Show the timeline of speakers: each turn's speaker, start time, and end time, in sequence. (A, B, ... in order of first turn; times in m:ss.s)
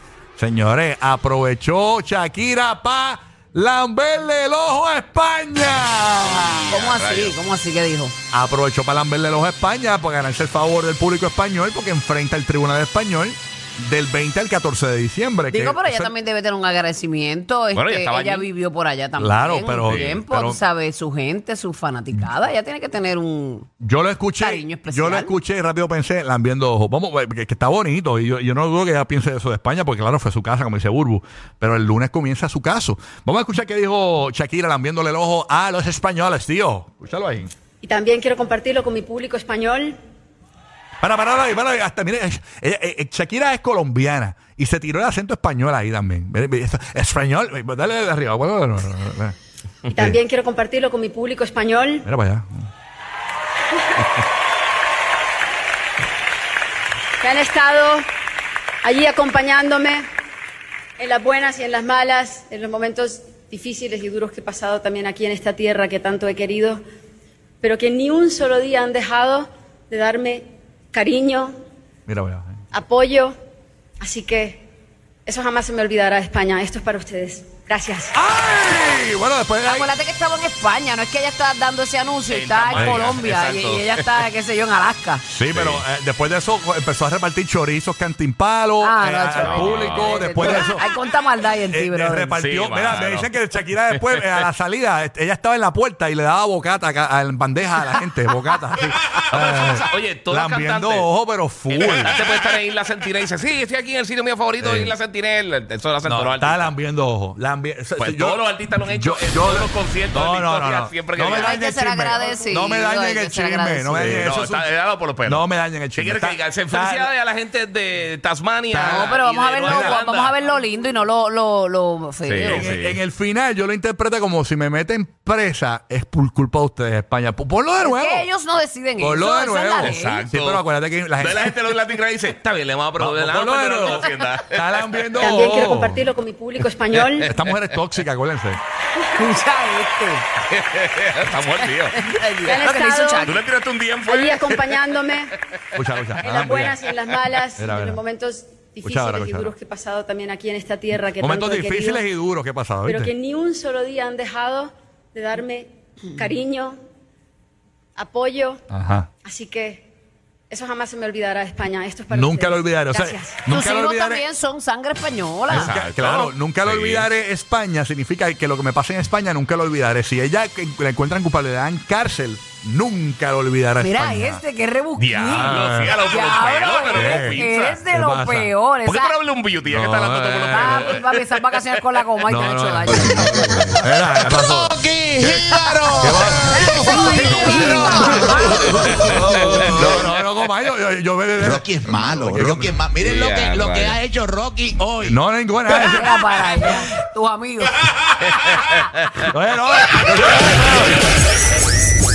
0:00.4-0:06.7 A
0:06.7-0:08.1 B
0:06.7-0:07.4 C
0:08.3-0:16.1 A
0:15.5-0:23.7 B
0:17.7-0:18.5 C
0:19.2-0:20.6 A
0:19.8-0:20.2 C
0:23.8-0:37.5 A
0:24.4-0:25.3 B
0:37.8-0:40.0 D
0:41.0-0:49.4 A
0:49.9-0:50.2 A
0:49.9-0:52.0 D
0:52.0-0:52.7 A
0:57.2-0:58.0 D
0:58.8-1:00.0 D
1:01.0-1:06.8 D
1:07.6-1:11.5 D
1:12.1-1:12.6 A
1:12.7-1:13.3 D
1:14.0-1:14.6 D
1:15.2-1:18.1 D
1:18.1-1:19.9 A
1:19.6-1:25.2 B
1:22.3-1:24.2 C
1:22.7-1:23.0 A
1:25.3-1:30.8 A
1:25.5-1:25.8 C
1:28.8-1:32.4 B
1:29.4-1:30.8 C
1:31.7-1:42.2 A
1:32.3-1:34.5 C
1:39.0-1:41.1 C
1:41.7-1:46.7 C
1:44.6-1:44.9 A
1:46.0-1:54.7 A
1:48.0-1:51.6 C
1:51.3-1:54.3 B
1:53.9-2:00.4 C
1:55.2-1:57.1 A
1:58.7-1:59.1 A
1:58.7-2:02.7 B
1:59.6-2:00.0 A
2:02.2-2:03.0 C
2:02.4-2:08.3 A
2:07.8-2:10.3 B
2:09.0-2:11.5 A
2:09.8-2:15.3 C
2:13.0-2:16.0 A
2:15.2-2:17.3 D
2:16.9-2:17.7 C
2:17.2-2:18.6 A
2:19.0-2:20.2 B
2:20.5-2:22.2 C
2:21.9-2:23.4 B
2:22.4-2:23.5 D
2:23.2-2:25.1 C
2:24.0-2:25.3 D
2:25.7-2:26.8 A
2:26.2-2:32.0 D
2:27.5-2:28.0 A
2:28.8-2:29.5 A
2:31.2-2:33.1 A
2:32.8-2:36.8 D
2:38.0-2:38.6 D
2:38.7-2:39.1 A
2:39.2-2:39.8 D
2:40.5-2:43.4 D
2:42.1-2:44.2 A
2:43.5-2:45.8 B
2:45.5-2:47.1 C
2:45.5-2:54.4 A
2:53.8-2:59.1 B
2:54.9-2:57.9 C
2:55.3-2:55.9 A
2:56.9-2:58.5 A
2:58.8-3:02.0 C
2:59.7-3:01.0 A
3:00.4-3:03.5 B
3:02.3-3:03.1 A
3:03.0-3:10.1 E
3:03.5-3:03.7 C
3:03.8-3:05.3 A
3:06.0-3:12.7 A
3:06.6-3:08.7 B
3:09.0-3:09.7 C
3:11.4-3:15.2 E
3:13.0-3:14.0 C
3:15.0-3:16.6 A
3:15.7-3:17.9 B
3:18.2-3:19.2 C
3:19.2-3:21.0 A